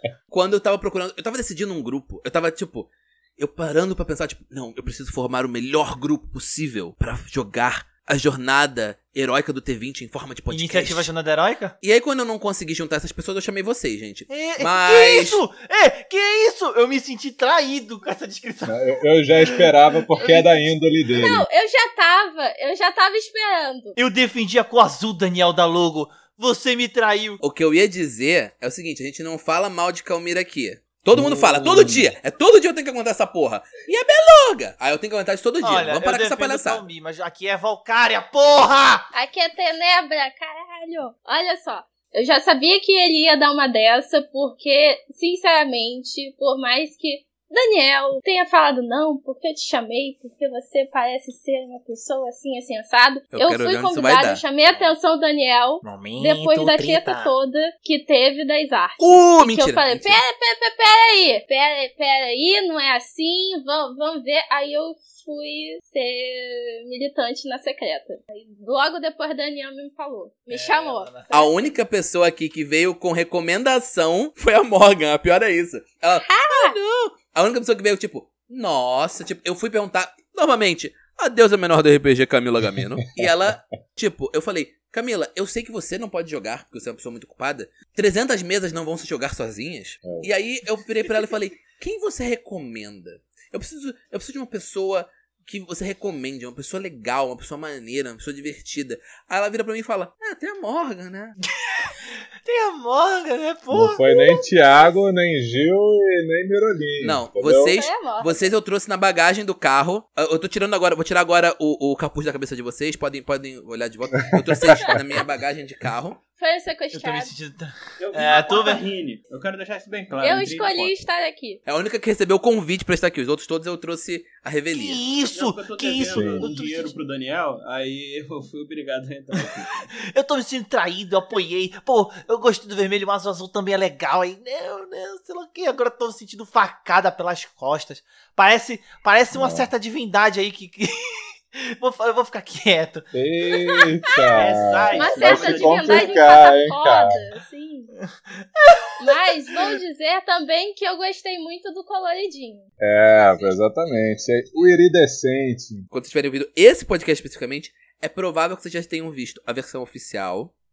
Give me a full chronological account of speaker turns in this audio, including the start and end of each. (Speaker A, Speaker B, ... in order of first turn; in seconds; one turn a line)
Speaker A: 0.3-11.1
Speaker B: 10.5-11.8
Speaker A: 11.8-15.4
Speaker B: 14.3-21.3
Speaker C: 18.7-21.4
Speaker D: 21.2-24.0
Speaker B: 24.0-27.4
Speaker A: 27.4-36.8
Speaker C: 31.1-32.1
Speaker B: 35.6-39.1
Speaker D: 39.1-71.8
Speaker A: 53.3-54.4
Speaker B: 54.7-55.0
Speaker B: 55.8-57.3
Speaker A: 59.0-60.2
Speaker B: 70.5-71.3
Speaker A: 71.3-101.4
Speaker D: 76.2-76.8
Speaker C: 82.8-83.3
Speaker C: 90.0-90.3
Speaker B: 101.6-104.4
Speaker C: 103.7-107.8
Speaker A: 107.0-116.2
Speaker D: 107.7-108.5
Speaker C: 114.3-115.0
Speaker D: 116.4-117.3
Speaker B: 116.9-118.8
Speaker E: 118.0-121.0
Speaker D: 120.2-121.6
Speaker A: 121.7-125.0
Speaker B: 124.7-127.0
Speaker E: 125.3-129.9
Speaker C: 126.1-126.5
Speaker B: 129.9-143.1
Speaker C: 139.3-139.7
Speaker C: 143.1-147.2
Speaker D: 143.5-144.3
Speaker E: 144.4-146.2
Speaker D: 144.9-147.9
Speaker B: 148.3-149.4
Speaker D: 149.0-152.7
Speaker C: 152.8-155.9
Speaker A: 155.9-160.5